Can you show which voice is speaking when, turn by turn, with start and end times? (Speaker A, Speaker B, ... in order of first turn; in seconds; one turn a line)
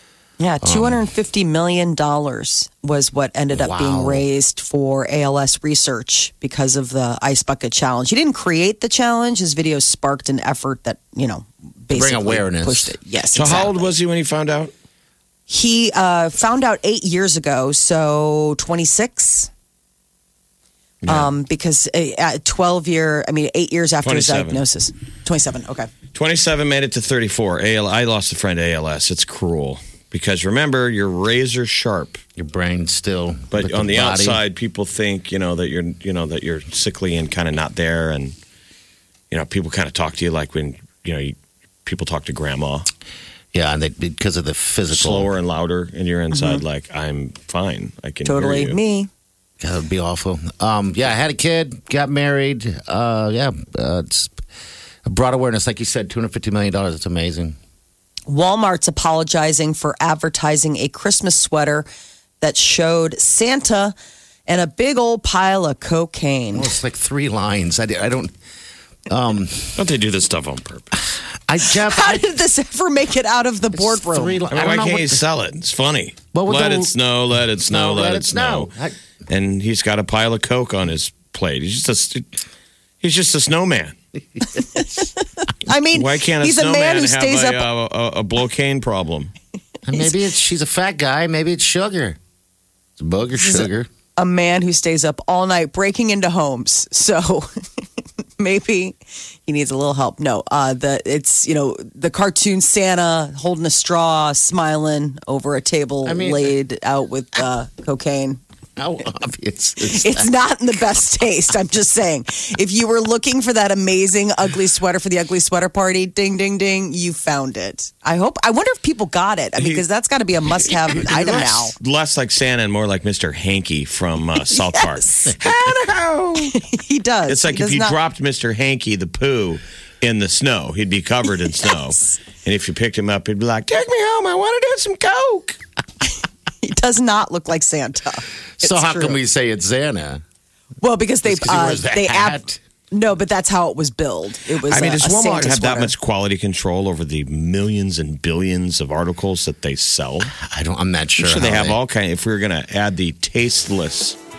Speaker A: 0.4-13.9
Speaker B: 0.6-1.1
Speaker B: 3.5-4.3
Speaker B: 11.9-13.0
Speaker C: 13.3-14.7
Speaker A: 15.5-19.5
Speaker A: 21.1-25.9
Speaker C: 24.0-24.6
Speaker C: 26.1-32.2
Speaker B: 32.4-34.4
Speaker C: 33.5-38.4
Speaker C: 39.3-42.9
Speaker B: 43.5-45.3
Speaker C: 44.9-48.8
Speaker A: 46.3-46.6
Speaker A: 48.2-49.1
Speaker B: 49.6-54.4
Speaker B: 55.1-57.5
Speaker A: 58.3-61.9
Speaker A: 62.4-63.9
Speaker A: 64.5-66.8
Speaker B: 66.5-68.3
Speaker B: 69.1-69.7
Speaker C: 69.8-71.0
Speaker B: 71.5-72.3
Speaker A: 71.6-74.4
Speaker B: 73.7-75.2
Speaker C: 74.5-78.7
Speaker B: 76.3-77.0
Speaker B: 77.7-79.0
Speaker C: 79.3-82.3
Speaker C: 83.0-84.0
Speaker A: 84.6-87.7
Speaker C: 85.9-89.3
Speaker B: 89.8-92.2
Speaker B: 93.0-93.9
Speaker A: 93.4-97.5
Speaker A: 98.4-108.4
Speaker B: 106.0-106.5
Speaker B: 108.8-110.3
Speaker A: 109.8-121.7
Speaker C: 119.6-119.8
Speaker C: 120.6-126.5
Speaker A: 124.5-125.4
Speaker A: 126.4-128.0
Speaker C: 127.3-135.6
Speaker A: 136.6-139.2
Speaker B: 138.6-140.2
Speaker A: 140.8-145.9
Speaker B: 141.2-142.6
Speaker C: 144.7-150.3
Speaker B: 150.2-151.8
Speaker C: 151.2-154.2